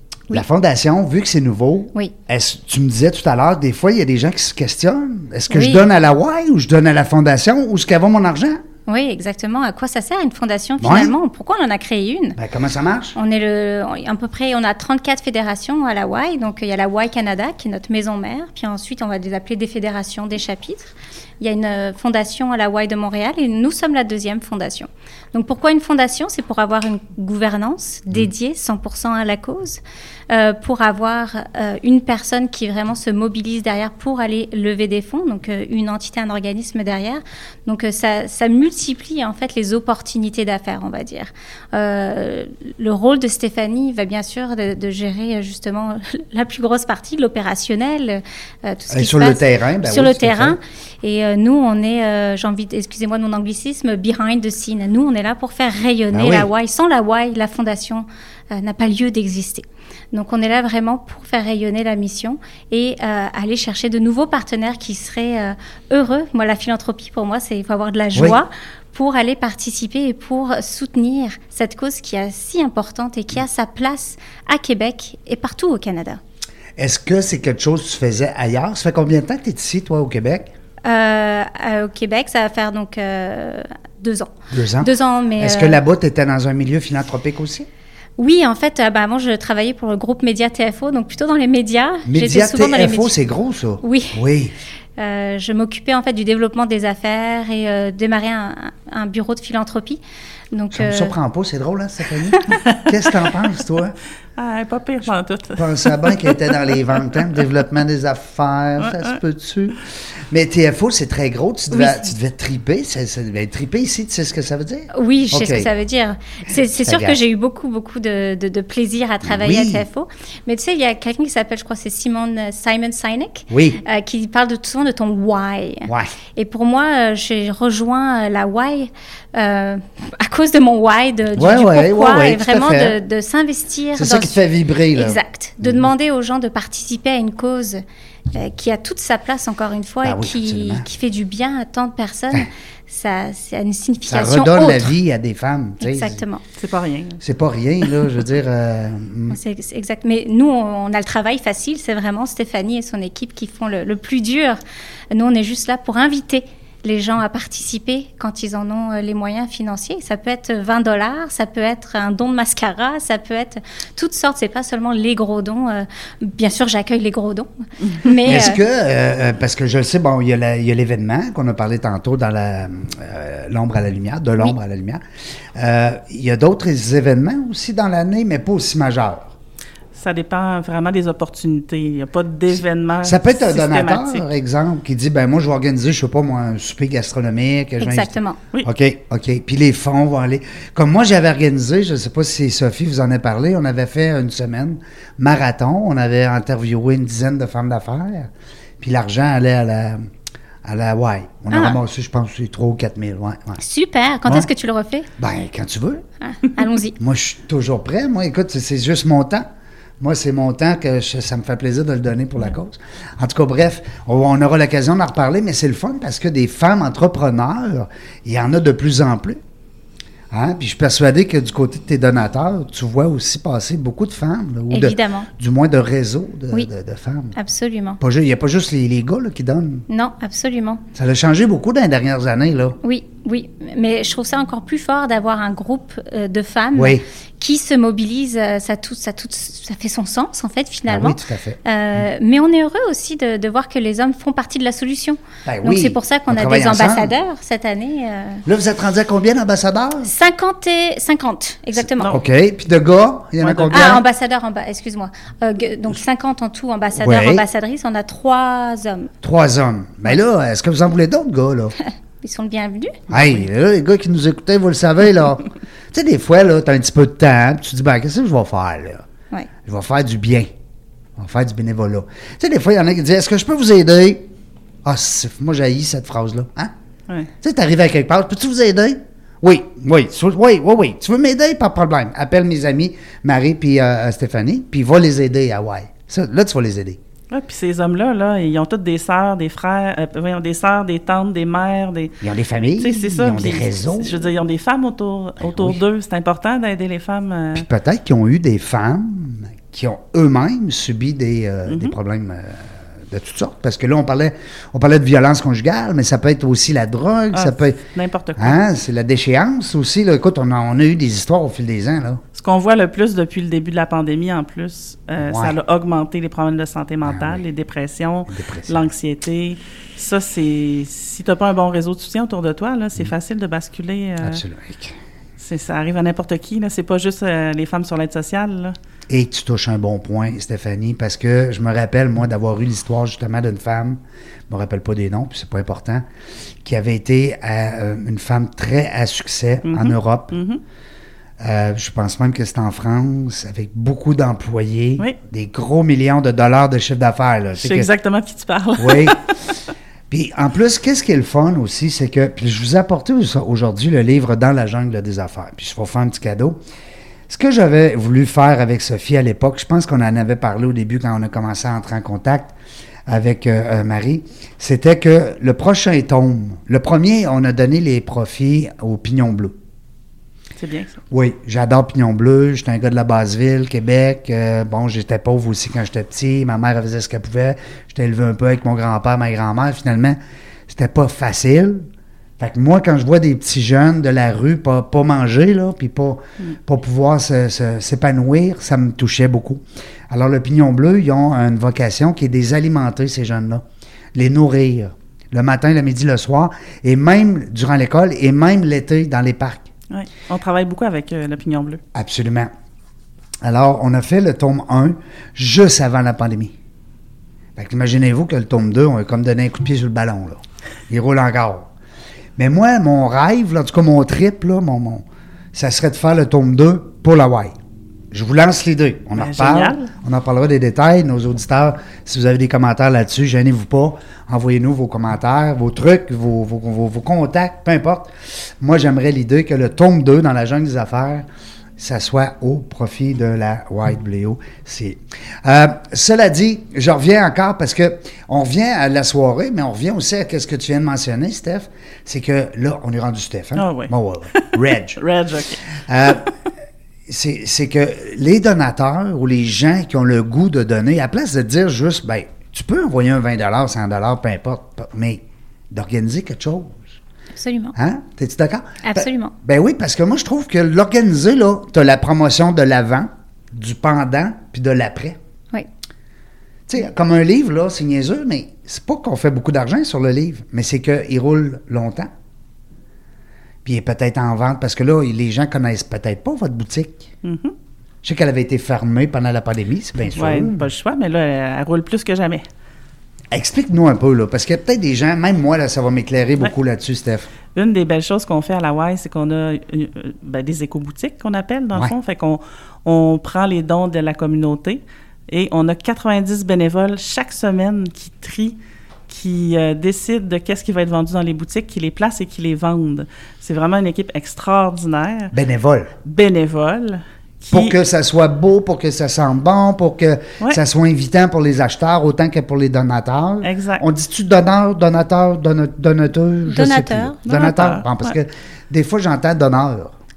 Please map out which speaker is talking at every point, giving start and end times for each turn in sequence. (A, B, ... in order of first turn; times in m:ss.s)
0:00.3-0:08.6 A
0:05.5-0:05.8 B
0:08.9-0:12.4 B
0:10.8-0:11.1 A
0:12.4-0:13.2 A
0:13.1-1:16.2 B
0:48.9-0:50.6 A
0:56.1-0:56.5 A
1:16.8-1:20.5 A
1:20.8-1:25.8 B
1:24.5-1:27.7 A
1:28.2-1:33.1 B
1:32.1-1:34.5 A
1:33.8-1:34.2 B
1:35.0-1:40.0 B
1:40.5-1:41.1 B
1:40.7-1:44.0 A
1:42.6-1:42.9 C
1:44.4-1:46.6 C
1:45.6-1:49.8 A
1:48.8-1:49.2 C
1:50.3-1:55.7 A
1:51.7-1:52.1 B
1:54.9-2:14.4 B
1:56.5-1:57.2 A
1:59.2-1:59.9 A
2:03.5-2:03.8 A
2:05.9-2:06.1 A
2:11.4-2:13.0 A
2:14.0-2:15.9 A
2:14.9-2:17.8 B
2:18.3-2:24.9 B
2:20.0-2:20.9 A
2:24.1-2:26.2 A
2:25.8-2:26.4 B
2:26.6-2:27.2 C
2:27.2-2:29.4 A
2:29.3-2:34.6 B
2:35.1-2:48.6 B
2:48.2-2:55.0 A
2:55.6-2:59.3 A
2:59.9-3:04.2 C
3:03.0-3:20.0 A
3:07.8-3:08.4 B
3:20.6-3:23.6 A
3:21.5-3:21.8 B
3:23.6-3:25.1 B
3:25.2-3:26.0 A
3:26.2-3:27.0 B
3:27.0-3:29.5 A
3:30.0-3:39.4 A
3:40.3-3:47.4 A
3:44.7-3:45.3 B
3:47.4-3:48.0 B
3:48.0-3:49.8 A
3:49.9-3:50.8 B
3:51.0-3:52.8 A
3:52.8-4:08.4 B
3:56.8-3:57.0 A
4:00.9-4:01.6 A
4:05.4-4:07.1 A
4:08.5-4:10.1 A
4:10.0-4:12.2 B
4:12.0-4:14.0 A
4:13.4-4:14.0 C
4:13.7-4:19.1 B
4:17.0-4:17.4 A
4:19.2-4:21.8 A
4:21.8-4:23.0 B
4:23.1-4:29.0 A
4:29.6-4:30.5 A
4:31.2-4:34.3 A
4:34.8-4:36.7 A
4:37.4-4:47.0 A
4:47.3-4:52.2 C
4:52.2-4:54.3 A
4:52.8-4:57.6 C
4:55.4-4:55.8 A
4:57.5-5:07.8 A
5:01.7-5:02.0 C
5:07.3-5:08.6 C
5:08.4-5:12.2 A
5:12.4-5:24.4 C
5:15.2-5:15.6 A
5:17.0-5:17.4 A
5:18.3-5:18.9 A
5:24.2-5:25.0 A
5:25.4-5:28.8 C
5:29.1-5:36.0 A
5:36.6-5:40.4 A
5:39.7-5:40.6 C
5:41.4-5:47.9 A
5:47.6-5:49.4 C
5:48.8-5:49.2 A
5:50.1-5:56.6 A
5:57.3-6:02.5 A
6:03.1-6:09.6 A
6:10.6-6:11.0 C
6:11.1-6:20.2 A
6:20.7-6:21.9 A
6:22.4-6:33.6 A
6:34.2-6:39.7 A
6:39.9-6:41.8 C
6:41.9-6:42.5 A
6:43.4-6:46.5 A
6:47.6-6:51.7 A
6:52.4-6:57.5 A
6:58.1-7:11.2 A
6:59.2-6:59.9 C
7:11.8-7:25.0 A
7:23.6-7:25.6 C
7:25.9-7:26.3 A
7:27.1-7:37.0 A
7:37.3-7:37.8 B
7:37.8-7:45.2 A
7:38.8-7:39.3 B
7:46.7-7:52.1 A
7:53.6-7:57.1 A
7:57.2-7:57.5 C
7:58.0-8:00.7 A
8:00.1-8:02.5 C
8:03.3-8:07.3 A
8:07.5-8:18.6 C
8:19.1-8:25.3 C
8:25.3-8:25.9 A
8:26.0-8:27.8 C
8:27.5-8:39.9 A
8:33.4-8:33.8 C
8:36.5-8:37.3 B
8:37.3-8:38.2 C